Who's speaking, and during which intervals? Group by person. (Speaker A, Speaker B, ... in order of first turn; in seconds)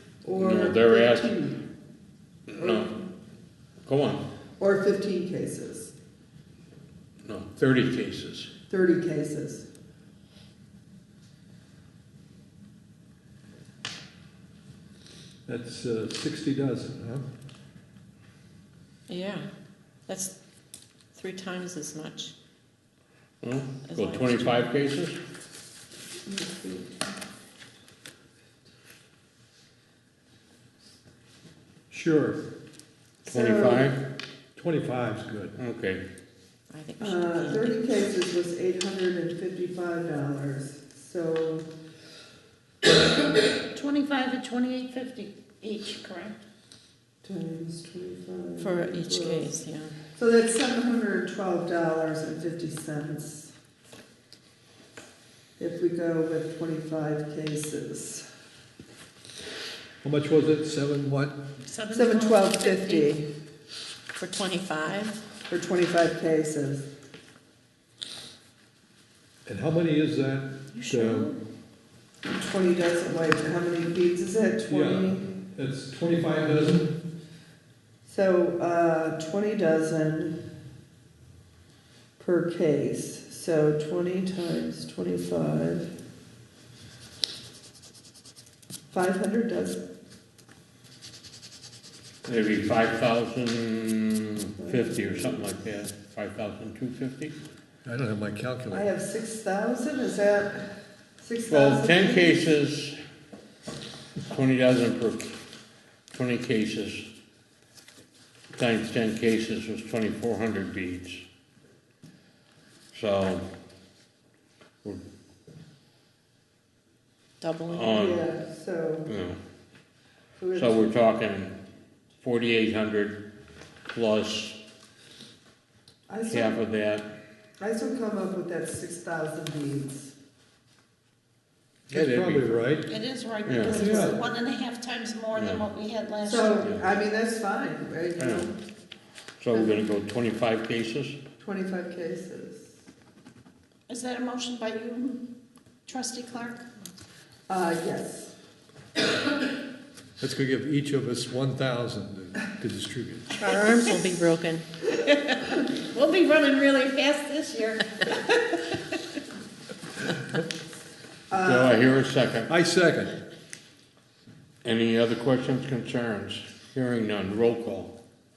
Speaker A: 0.2-1.6, 2.6-3.1, 4.6-5.9, 8.7-9.7, 26.3-26.9, 33.2-34.0, 37.0-41.7, 47.2-49.5, 50.2-53.5, 55.6-58.3, 61.9-63.3, 65.5-66.9, 72.3-75.3, 78.1-80.4, 82.2-85.9, 88.9-89.8, 94.6-95.6, 98.7-100.7, 101.2-102.5, 117.9-119.1, 120.4-121.0, 126.1-126.7, 127.6-130.1, 133.8-134.1, 136.2-138.5, 139.5-139.9, 141.4-142.7, 147.5-148.3, 161.3-161.9
Speaker B: 0.3-1.4, 2.5-3.0, 3.9-4.2, 7.2-8.5, 23.4-25.2, 33.3-34.0, 35.6-36.0, 92.2-97.3, 101.5-103.0, 104.3-105.3, 106.1-107.1, 108.5-111.2, 112.9-113.5, 117.7-118.3, 119.1-119.4, 120.5-121.6, 122.2-123.3, 123.9-124.6, 126.3-127.1, 131.9-132.6, 133.5-133.9, 135.3-135.7, 136.6-136.9, 138.2-138.5, 139.4-141.2, 161.4-162.5, 164.6-168.0
Speaker C: 15.5-17.3, 31.9-32.4, 34.5-35.6, 60.0-61.4, 69.5-71.4, 74.7-77.0, 97.8-98.9, 131.9-132.9, 133.7-134.2, 150.2-153.3, 162.5-163.2
Speaker D: 19.1-19.5, 20.1-20.4, 21.1-22.3, 23.9-24.8, 36.7-37.7, 48.6-49.9, 64.2-65.2, 117.4-118.1, 153.4-154.6
Speaker E: 43.7-46.4, 61.7-63.1, 70.7-71.4, 132.9-136.6, 143.9-145.2, 145.9-146.7, 155.1-158.6